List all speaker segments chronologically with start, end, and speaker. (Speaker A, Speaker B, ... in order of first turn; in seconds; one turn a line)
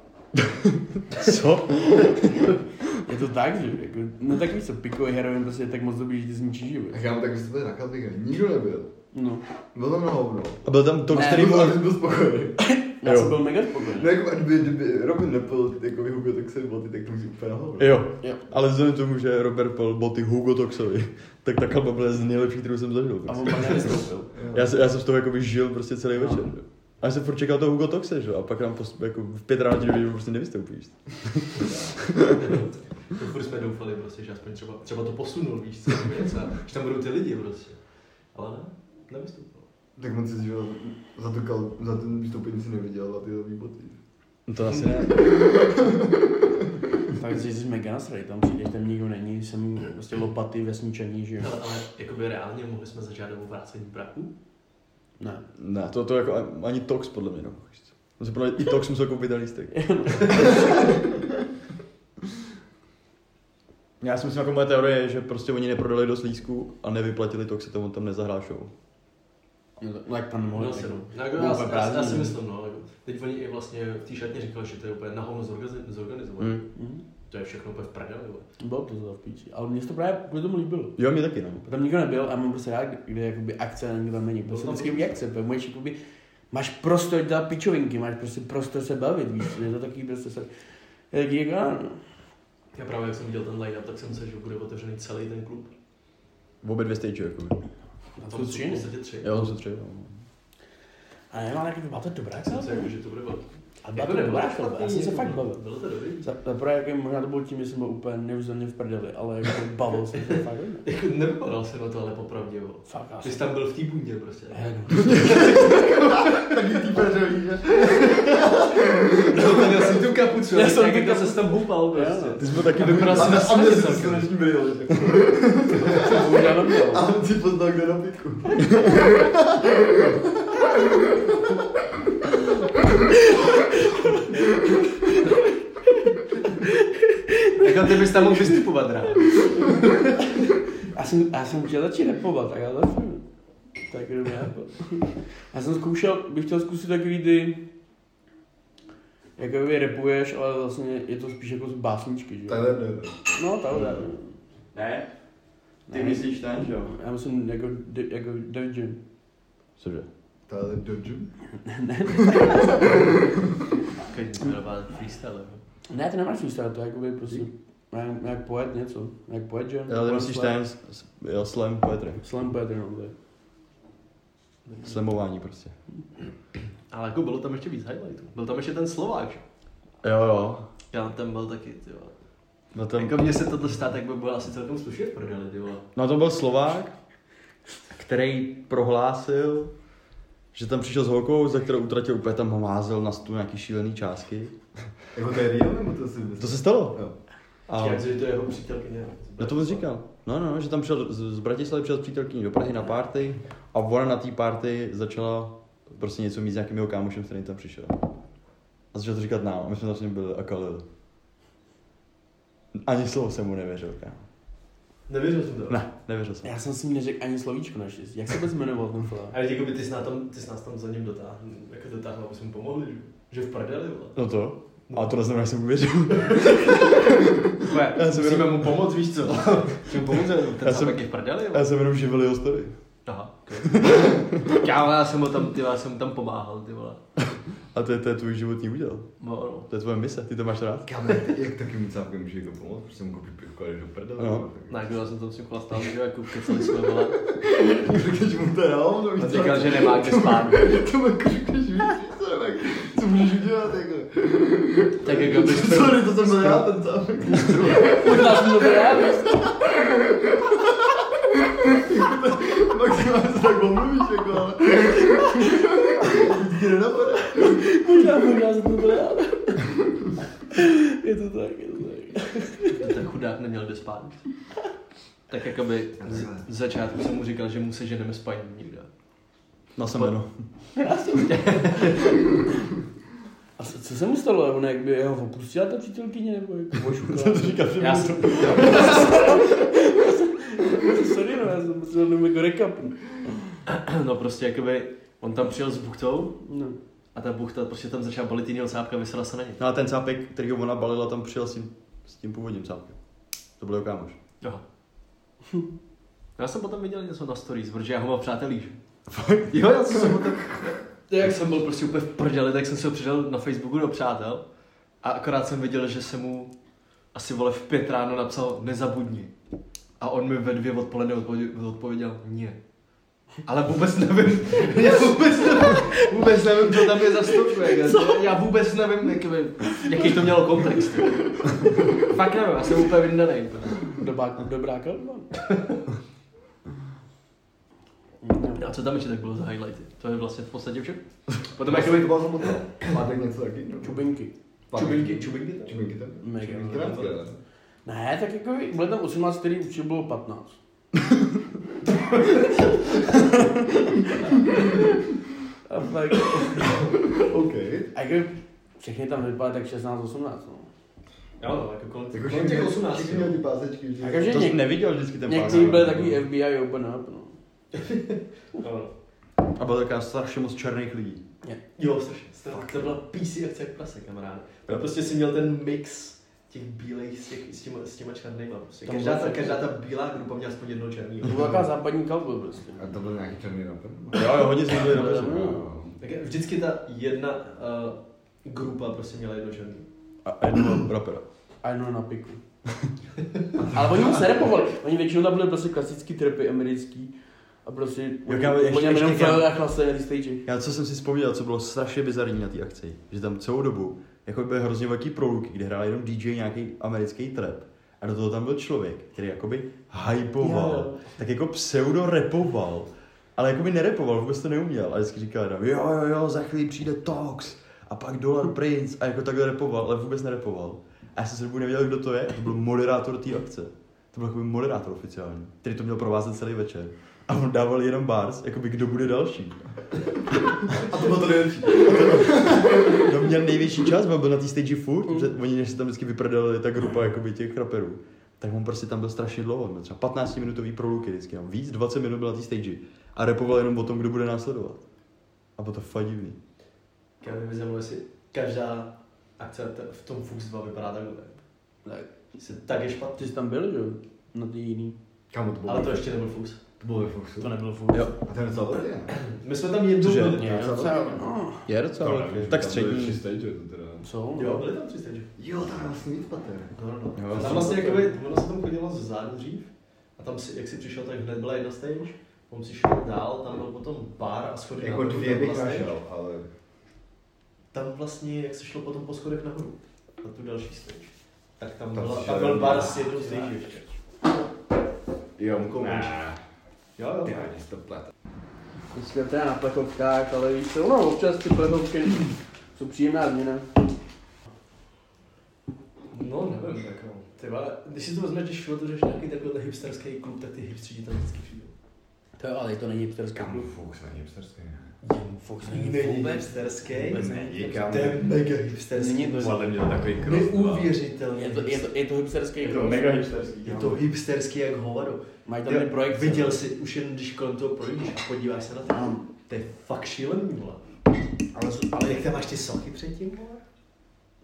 Speaker A: 0.3-2.5
Speaker B: 3.0-7.0
Speaker C: 6.9-8.9
Speaker B: 9.1-9.4
Speaker C: 9.7-12.6
Speaker A: 10.6-11.8
Speaker B: 12.6-14.1
Speaker A: 13.0-13.4
Speaker C: 13.9-18.0
Speaker A: 17.8-24.0
Speaker B: 23.3-24.3
Speaker C: 24.3-24.7
Speaker A: 24.5-32.4
Speaker B: 26.2-26.4
Speaker D: 32.3-37.8
Speaker D: 38.3-39.6
Speaker C: 40.0-44.0
Speaker A: 44.5-45.3
Speaker C: 45.4-46.1
Speaker B: 47.1-51.5
Speaker D: 51.4-54.3
Speaker B: 55.2-55.5
Speaker A: 55.6-61.0
Speaker B: 59.7-60.9
Speaker A: 64.0-68.7
Speaker B: 69.8-72.3
Speaker D: 70.5-76.6
Speaker A: 76.4-76.6
Speaker B: 76.8-77.0
Speaker D: 77.3-78.5
Speaker B: 78.6-81.0
Speaker A: 81.0-81.7
Speaker B: 81.6-86.0
Speaker D: 84.5-85.1
Speaker B: 86.5-90.5
Speaker B: 91.1-92.0
Speaker D: 92.7-95.7
Speaker A: 96.6-97.6
Speaker B: 98.2-98.8
Speaker D: 98.3-99.4
Speaker A: 99.2-100.2
Speaker B: 101.3-102.9
Speaker D: 102.5-106.2
Speaker B: 103.8-105.6
Speaker B: 106.2-110.8
Speaker D: 110.8-116.5
Speaker B: 112.9-113.4
Speaker B: 114.5-115.8
Speaker C: 115.3-115.8
Speaker C: 116.3-119.9
Speaker D: 117.9-118.3
Speaker D: 119.2-124.3
Speaker B: 120.5-122.5
Speaker A: 122.4-123.6
Speaker C: 123.0-130.5
Speaker A: 124.9-125.3
Speaker B: 125.9-127.0
Speaker B: 136.6-137.7
Speaker D: 137.6-140.1
Speaker B: 140.9-143.2
Speaker B: 143.9-147.6
Speaker B: 149.4-152.7
Speaker C: 152.5-153.2
Speaker B: 153.3-154.3
Speaker A: 154.7-155.1
Speaker B: 155.9-159.0
Speaker A: 155.9-156.9
Speaker A: 159.8-160.1
Speaker C: 160.5-161.3
Speaker B: 161.6-163.1
Speaker D: 164.1-165.6
Speaker B: 165.9-170.6
Speaker A: 169.9-172.2
Speaker B: 172.2-173.1
Speaker D: 174.7-174.9
Speaker A: 174.8-175.7
Speaker D: 176.9-179.4
Speaker A: 180.0-180.7
Speaker D: 180.9-182.1
Speaker A: 182.7-183.2
Speaker D: 182.9-185.8
Speaker A: 185.9-186.9
Speaker A: 187.9-189.7
Speaker A: 190.5-194.6
Speaker C: 195.1-197.1
Speaker A: 196.4-197.0
Speaker A: 197.7-198.0
Speaker D: 197.7-199.8
Speaker A: 199.4-208.0
Speaker A: 208.9-210.8
Speaker A: 212.7-214.2
Speaker D: 215.1-215.8
Speaker A: 215.7-216.5
Speaker B: 216.4-219.4
Speaker D: 219.3-224.2
Speaker A: 224.2-228.7
Speaker D: 227.6-231.7
Speaker A: 230.6-232.7
Speaker D: 233.1-237.0
Speaker A: 233.7-234.6
Speaker A: 237.7-239.1
Speaker D: 239.2-239.7
Speaker A: 239.7-240.9
Speaker C: 240.8-244.9
Speaker A: 244.2-244.4
Speaker D: 244.7-247.2
Speaker C: 247.2-260.6
Speaker D: 249.2-250.8
Speaker D: 255.0-256.6
Speaker B: 257.7-259.3
Speaker C: 261.6-267.7
Speaker B: 267.4-269.7
Speaker B: 270.5-272.7
Speaker D: 272.7-274.2
Speaker D: 275.3-278.9
Speaker C: 276.0-276.4
Speaker A: 279.8-280.4
Speaker B: 280.8-281.9
Speaker D: 281.3-282.0
Speaker B: 283.6-287.7
Speaker A: 287.0-289.4
Speaker D: 287.8-289.3
Speaker B: 288.3-293.0
Speaker D: 293.6-296.4
Speaker B: 296.4-296.8
Speaker D: 297.1-299.6
Speaker A: 299.6-303.0
Speaker A: 303.6-304.2
Speaker D: 306.4-308.7
Speaker A: 309.1-309.5
Speaker D: 309.5-314.4
Speaker D: 315.0-316.5
Speaker D: 317.1-319.3
Speaker D: 320.0-322.6
Speaker D: 323.4-333.9
Speaker B: 327.6-328.0
Speaker B: 333.9-335.3
Speaker D: 335.4-335.8
Speaker B: 338.2-338.6
Speaker D: 338.6-342.9
Speaker C: 341.6-344.0
Speaker B: 343.8-344.3
Speaker C: 344.7-347.4
Speaker D: 344.7-347.2
Speaker B: 346.2-347.0
Speaker B: 347.9-350.6
Speaker D: 352.1-353.0
Speaker B: 355.7-356.9
Speaker C: 357.1-357.9
Speaker B: 357.9-360.7
Speaker D: 361.4-363.4
Speaker C: 362.1-364.5
Speaker B: 364.0-367.4
Speaker A: 364.3-366.2
Speaker C: 365.5-365.8
Speaker D: 367.7-368.9
Speaker A: 369.5-371.2
Speaker D: 371.8-381.5
Speaker C: 372.5-372.9
Speaker A: 374.7-374.9
Speaker B: 378.8-379.6
Speaker B: 381.2-382.8
Speaker C: 382.8-386.0
Speaker A: 384.1-385.6
Speaker B: 384.7-385.6
Speaker D: 386.0-389.9
Speaker A: 390.2-391.2
Speaker B: 391.6-392.4
Speaker C: 393.6-394.2
Speaker B: 393.6-397.1
Speaker B: 397.6-400.4
Speaker A: 398.3-399.5
Speaker A: 400.4-429.7
Speaker B: 410.4-411.1
Speaker A: 430.3-444.8
Speaker C: 430.7-433.0
Speaker A: 445.6-446.4
Speaker D: 447.2-451.4
Speaker D: 452.4-453.3
Speaker B: 453.2-455.0
Speaker C: 455.3-456.1
Speaker D: 455.6-456.6
Speaker C: 456.8-457.5
Speaker B: 457.4-458.1
Speaker C: 458.2-459.1
Speaker D: 459.1-460.8
Speaker A: 460.0-460.5
Speaker B: 460.4-461.7
Speaker C: 460.4-461.3
Speaker A: 461.7-463.2
Speaker C: 462.0-464.1
Speaker B: 464.0-464.6
Speaker D: 464.4-465.3
Speaker C: 465.4-466.8
Speaker D: 466.8-475.9
Speaker A: 467.1-467.9
Speaker C: 467.4-467.7
Speaker B: 467.6-467.9
Speaker C: 474.8-476.5
Speaker D: 477.7-483.8
Speaker C: 481.9-483.1
Speaker B: 483.1-483.6
Speaker C: 485.4-486.4
Speaker D: 485.6-486.2
Speaker D: 487.0-487.5
Speaker C: 487.2-488.1
Speaker B: 488.9-493.6
Speaker D: 496.1-501.7
Speaker B: 502.4-503.7
Speaker C: 503.3-504.9
Speaker D: 505.0-511.9
Speaker B: 505.4-507.6
Speaker C: 507.0-508.4
Speaker B: 508.9-509.7
Speaker C: 509.4-510.9
Speaker B: 511.3-513.1
Speaker A: 512.6-514.0
Speaker D: 513.6-520.8
Speaker B: 515.5-516.6
Speaker B: 521.5-522.1
Speaker D: 521.9-523.6